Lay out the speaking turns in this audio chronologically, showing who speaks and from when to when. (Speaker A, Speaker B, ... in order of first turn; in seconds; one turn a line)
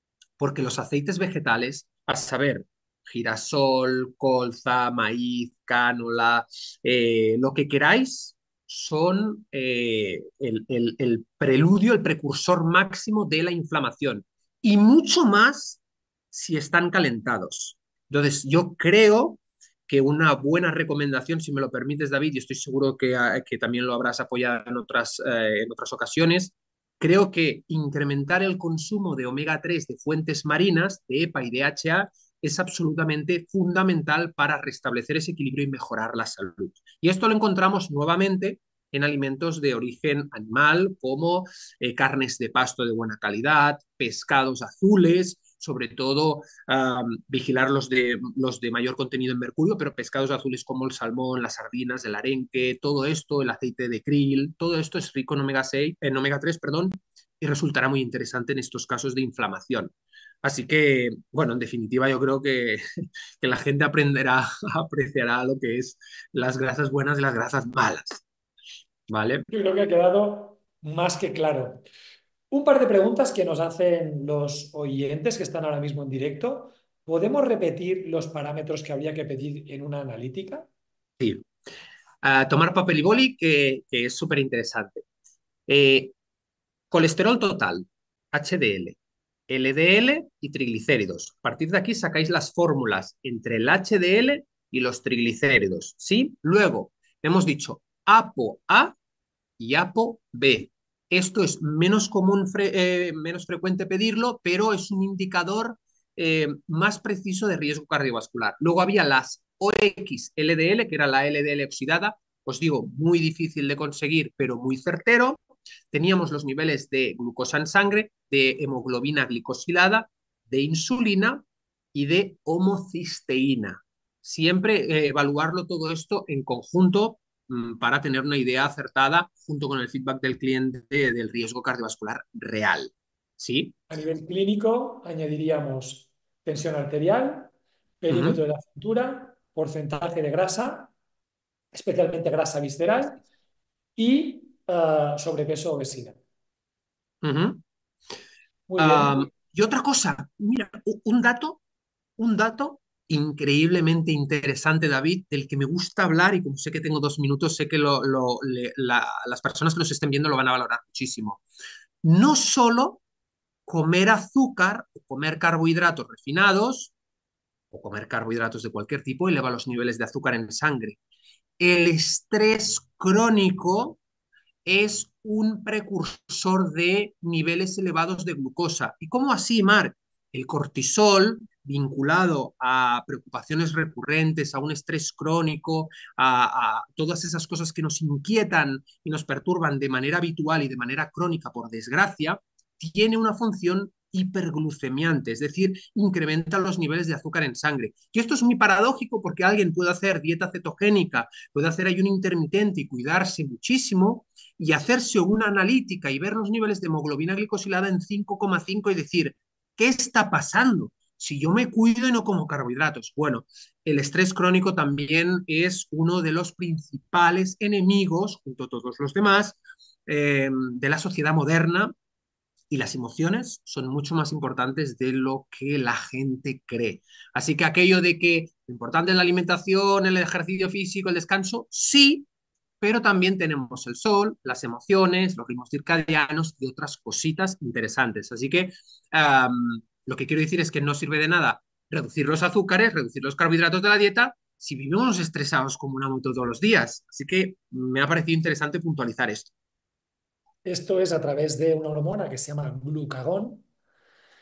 Speaker A: 0.4-15.8
Speaker A: 16.3-59.9
Speaker A: 60.4-62.8
Speaker A: 63.4-68.2
Speaker A: 69.1-69.5
Speaker B: 69.5-71.8
Speaker B: 72.5-80.7
Speaker A: 81.2-81.5
Speaker A: 82.2-85.0
Speaker A: 85.7-86.1
Speaker A: 86.9-89.0
Speaker A: 89.5-99.0
Speaker A: 99.6-133.8
Speaker B: 133.9-140.9
Speaker A: 138.1-138.4
Speaker B: 141.7-143.2
Speaker B: 144.0-146.2
Speaker A: 147.2-147.6
Speaker B: 148.7-149.3
Speaker A: 148.8-151.6
Speaker A: 152.2-161.4
Speaker A: 162.0-163.0
Speaker A: 163.7-166.9
Speaker A: 167.7-171.0
Speaker A: 171.6-174.0
Speaker A: 174.7-221.9
Speaker A: 222.7-232.3
Speaker A: 232.8-249.5
Speaker B: 250.6-253.7